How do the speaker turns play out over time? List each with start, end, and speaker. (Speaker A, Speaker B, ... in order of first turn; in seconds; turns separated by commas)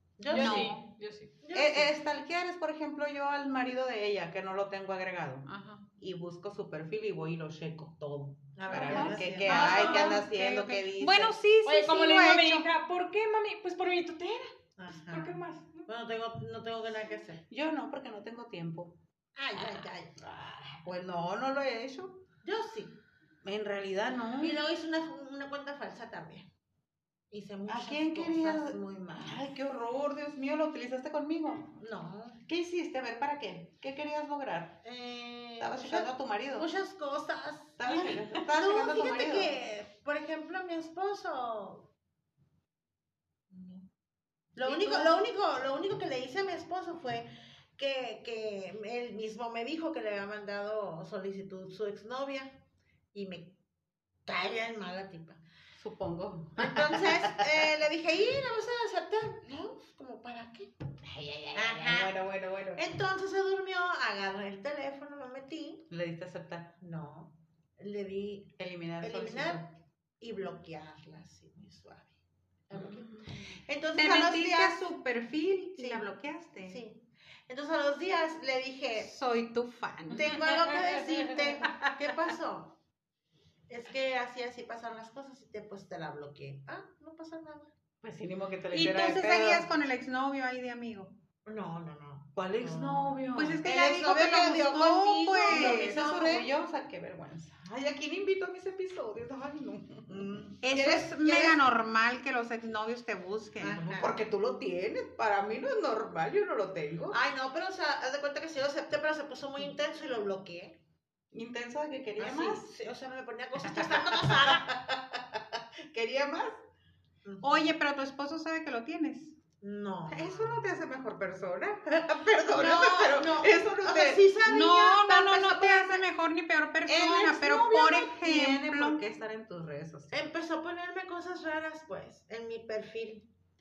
Speaker A: 0.2-0.8, Speaker B: 0.3-1.4, Speaker C: 0.3-0.8, Speaker A: 1.4-1.9, Speaker D: 1.5-11.4, Speaker C: 5.5-5.9, Speaker A: 8.6-10.2, Speaker C: 8.7-12.7, Speaker B: 11.7-15.9, Speaker A: 14.8-17.4, Speaker D: 17.5-19.0, Speaker A: 19.4-20.3, Speaker D: 19.6-22.2, Speaker A: 22.4-23.0, Speaker D: 23.4-24.6, Speaker A: 24.4-26.5, Speaker A: 27.3-29.5, Speaker D: 27.7-31.7, Speaker A: 31.7-32.4, Speaker D: 32.5-34.8, Speaker A: 34.8-41.9, Speaker D: 35.6-36.7, Speaker D: 37.8-39.5, Speaker A: 43.5-43.9, Speaker A: 44.6-52.6, Speaker D: 44.6-45.1, Speaker A: 53.1-53.6, Speaker A: 54.3-55.4, Speaker D: 55.8-57.5, Speaker A: 56.6-60.8, Speaker D: 61.0-62.9, Speaker A: 61.5-62.1, Speaker A: 62.8-65.8, Speaker D: 65.9-66.8, Speaker A: 66.8-69.7, Speaker D: 68.6-69.7, Speaker A: 70.2-72.1, Speaker A: 72.7-74.8, Speaker C: 73.9-76.8, Speaker A: 75.8-76.1, Speaker A: 76.7-79.1, Speaker C: 79.0-80.9, Speaker A: 80.1-82.8, Speaker A: 83.7-87.7, Speaker D: 88.0-89.7, Speaker C: 88.7-91.1, Speaker A: 91.5-96.5, Speaker D: 92.3-94.0, Speaker C: 93.3-96.1, Speaker D: 95.5-101.6, Speaker C: 100.6-103.8, Speaker A: 103.6-104.2, Speaker D: 103.8-107.2, Speaker A: 107.1-110.8, Speaker D: 111.3-112.7, Speaker A: 112.2-114.7, Speaker D: 113.6-116.6, Speaker A: 117.2-117.7, Speaker C: 117.4-119.3, Speaker A: 119.6-120.5, Speaker D: 120.1-124.2, Speaker A: 122.5-126.0, Speaker C: 124.5-129.0, Speaker D: 126.9-130.1, Speaker A: 130.1-133.3